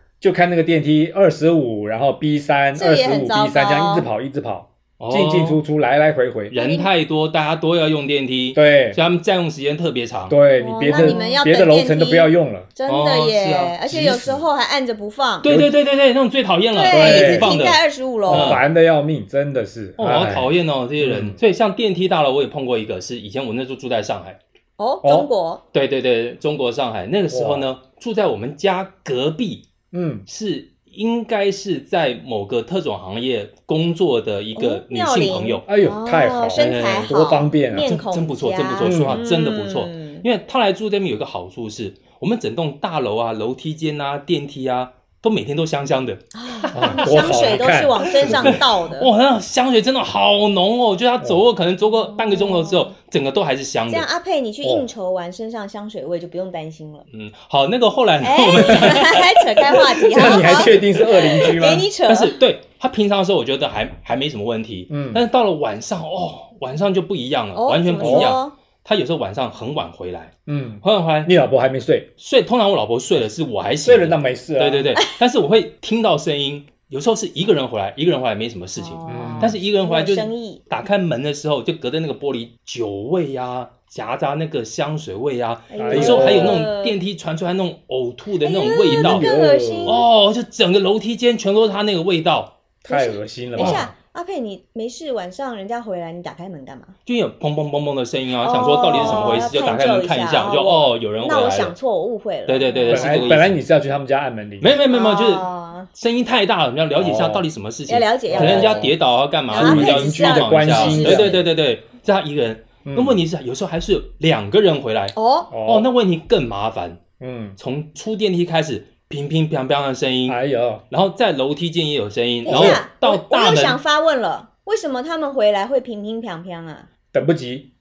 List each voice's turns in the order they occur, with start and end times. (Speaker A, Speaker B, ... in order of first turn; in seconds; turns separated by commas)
Speaker A: 0.2-6.5, Speaker B: 2.7-4.1, Speaker C: 5.0-5.6, Speaker C: 6.5-10.4, Speaker B: 6.5-6.9, Speaker A: 8.5-9.0, Speaker A: 10.3-12.7, Speaker B: 10.6-15.5, Speaker C: 10.9-11.4, Speaker C: 12.9-14.3, Speaker A: 13.9-14.4, Speaker C: 15.4-18.6, Speaker A: 15.4-15.7, Speaker B: 16.7-18.6, Speaker A: 16.9-17.5, Speaker A: 18.3-21.4, Speaker C: 20.0-24.4, Speaker B: 24.8-25.6, Speaker A: 25.0-25.3, Speaker C: 25.7-29.7, Speaker A: 27.3-27.7, Speaker A: 29.9-30.2, Speaker C: 30.3-35.6, Speaker B: 34.5-40.2, Speaker A: 35.7-37.9, Speaker C: 36.5-37.1, Speaker C: 37.8-54.1, Speaker A: 38.8-39.2, Speaker B: 46.3-49.1, Speaker A: 46.7-48.6, Speaker B: 51.9-52.9, Speaker B: 53.9-57.0, Speaker A: 54.6-54.9, Speaker C: 57.1-71.3, Speaker B: 58.2-60.8, Speaker A: 60.1-61.9, Speaker B: 61.4-62.3, Speaker A: 64.9-65.2, Speaker B: 67.5-68.5, Speaker A: 68.0-68.3, Speaker A: 70.5-72.1, Speaker C: 72.2-89.3, Speaker A: 73.8-74.9, Speaker B: 78.8-80.6, Speaker A: 79.1-79.6, Speaker B: 85.7-87.0, Speaker A: 85.8-86.7, Speaker B: 88.4-90.0, Speaker A: 88.8-90.0, Speaker C: 89.8-92.5, Speaker A: 92.8-93.9, Speaker B: 92.8-96.9, Speaker C: 93.6-93.9, Speaker C: 97.0-101.8, Speaker B: 98.4-103.3, Speaker A: 98.9-99.5, Speaker C: 102.5-103.6, Speaker A: 102.9-104.7, Speaker C: 104.6-117.0, Speaker B: 104.9-105.9, Speaker A: 107.0-107.5, Speaker B: 107.9-108.9, Speaker A: 108.3-109.0, Speaker B: 109.5-111.4, Speaker A: 109.5-111.4, Speaker A: 112.8-113.2, Speaker B: 115.1-115.5, Speaker A: 115.5-115.9, Speaker A: 117.2-117.6, Speaker C: 117.6-120.4, Speaker A: 120.3-120.8, Speaker C: 120.9-123.8, Speaker B: 122.4-126.9, Speaker A: 122.5-122.8, Speaker A: 127.1-127.7